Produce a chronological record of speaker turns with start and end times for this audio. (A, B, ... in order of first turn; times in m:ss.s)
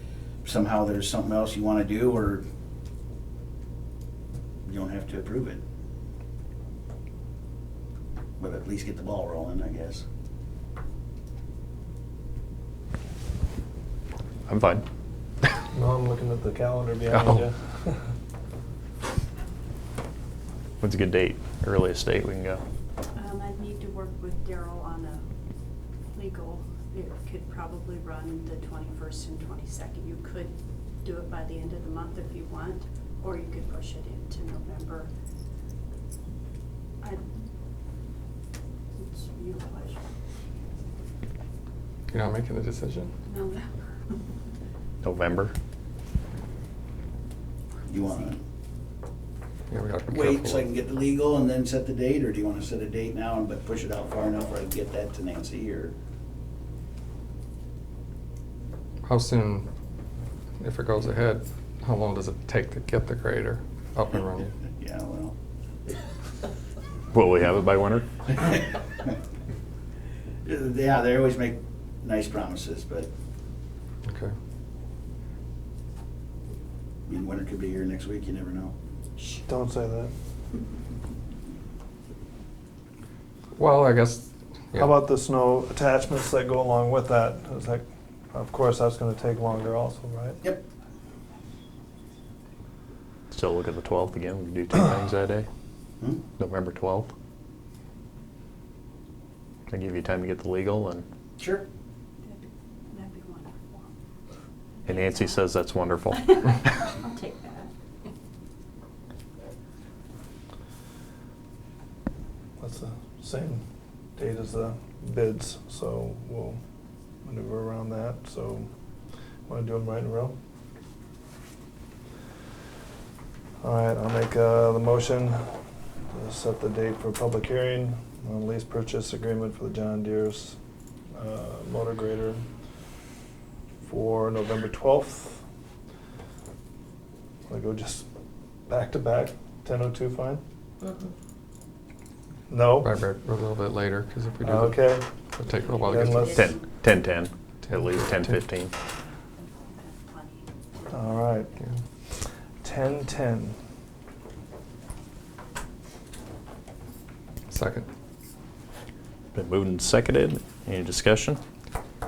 0:00.4-0:02.4 A
0:04.7-0:05.6 A
0:08.4-0:10.0 A
0:14.5-0:14.8 B
0:15.7-0:18.0 C
0:17.1-0:17.4 B
0:20.8-0:22.6 B
0:23.1-0:25.2 D
0:26.1-0:35.1 D
0:39.0-0:40.0 D
0:42.1-0:43.1 E
0:43.3-0:44.3 D
0:45.0-0:45.5 B
0:47.9-0:48.4 A
0:49.7-0:50.7 E
0:50.1-0:56.0 A
0:59.0-0:59.7 E
1:00.6-1:04.5 E
1:04.1-1:05.4 A
1:07.1-1:08.1 B
1:08.3-1:09.2 A
1:10.4-1:13.1 A
1:14.1-1:14.3 E
1:17.1-1:18.7 A
1:19.5-1:20.1 C
1:23.6-1:24.9 E
1:24.8-1:30.4 C
1:33.3-1:35.5 B
1:36.4-1:37.1 B
1:39.7-1:41.0 B
1:41.4-1:41.7 A
1:42.2-1:43.9 D
1:44.8-1:45.5 D
1:44.8-1:46.6 B
1:46.1-1:47.7 D
1:52.6-1:53.6 C
1:54.2-1:56.6 C
1:57.2-1:58.7 C
1:59.5-2:00.4 C
2:03.6-2:05.4 C
2:06.1-2:10.6 C
2:11.1-2:12.4 C
2:13.8-2:15.4 C
2:17.5-2:18.1 C
2:18.7-2:20.4 C
2:22.5-2:22.9 C
2:22.8-2:26.3 E
2:24.4-2:25.1 C
2:25.7-2:26.7 D
2:25.8-2:26.5 C
2:26.4-2:28.7 B
2:29.4-2:30.5 D
2:30.9-2:31.5 C
2:32.6-2:33.6 C
2:37.5-2:37.9 E
2:39.3-2:41.4 B